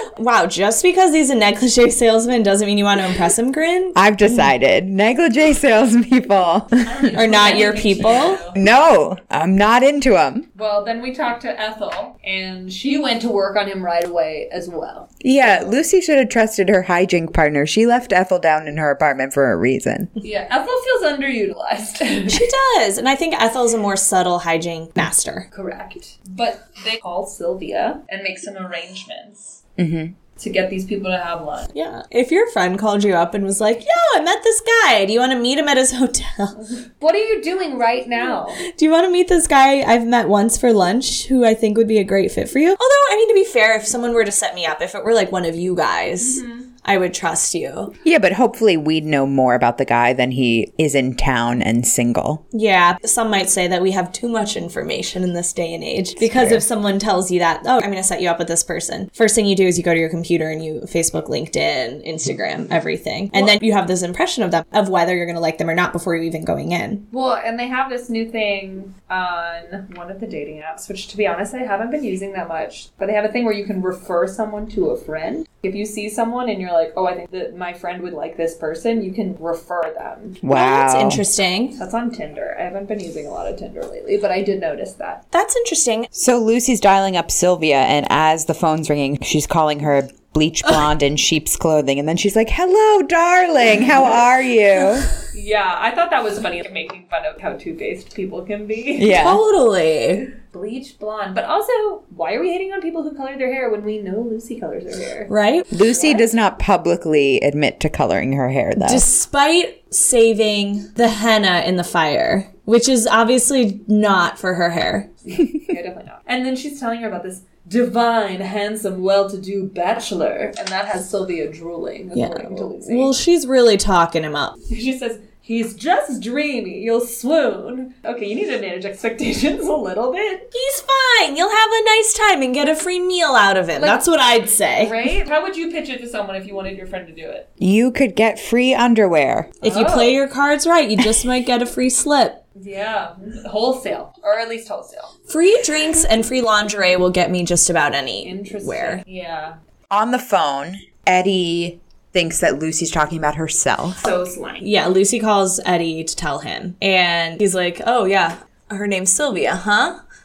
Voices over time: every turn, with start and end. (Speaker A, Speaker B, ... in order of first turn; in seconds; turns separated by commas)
Speaker A: 0.2-4.4, Speaker B: 3.9-7.1, Speaker C: 6.8-8.6, Speaker A: 7.1-8.4, Speaker B: 8.5-10.4, Speaker C: 10.5-15.8, Speaker B: 15.2-20.1, Speaker C: 20.2-22.5, Speaker A: 22.3-25.4, Speaker C: 25.5-29.6, Speaker B: 29.8-30.1, Speaker C: 30.4-31.7, Speaker A: 31.7-36.6, Speaker C: 36.8-38.6, Speaker A: 38.6-47.9, Speaker C: 46.2-46.7, Speaker B: 48.0-52.4, Speaker A: 52.5-67.0, Speaker B: 56.2-56.6, Speaker C: 63.3-63.6, Speaker C: 67.1-80.4, Speaker B: 80.4-81.2, Speaker A: 80.5-81.8, Speaker C: 81.8-85.2, Speaker A: 85.3-86.1, Speaker B: 86.1-95.1, Speaker C: 95.3-99.2, Speaker B: 99.0-99.4, Speaker A: 99.1-100.3, Speaker C: 100.5-106.3, Speaker A: 105.3-105.7, Speaker B: 105.7-109.1, Speaker A: 108.8-115.1, Speaker C: 115.3-123.1, Speaker A: 122.1-124.6, Speaker C: 124.7-130.5, Speaker A: 130.5-134.9, Speaker C: 133.8-137.5, Speaker B: 137.6-139.6, Speaker C: 139.6-140.2, Speaker A: 139.6-142.4, Speaker C: 142.6-145.1, Speaker A: 145.3-149.0, Speaker C: 148.2-149.6, Speaker B: 149.9-154.0, Speaker C: 154.0-154.7, Speaker A: 154.6-160.0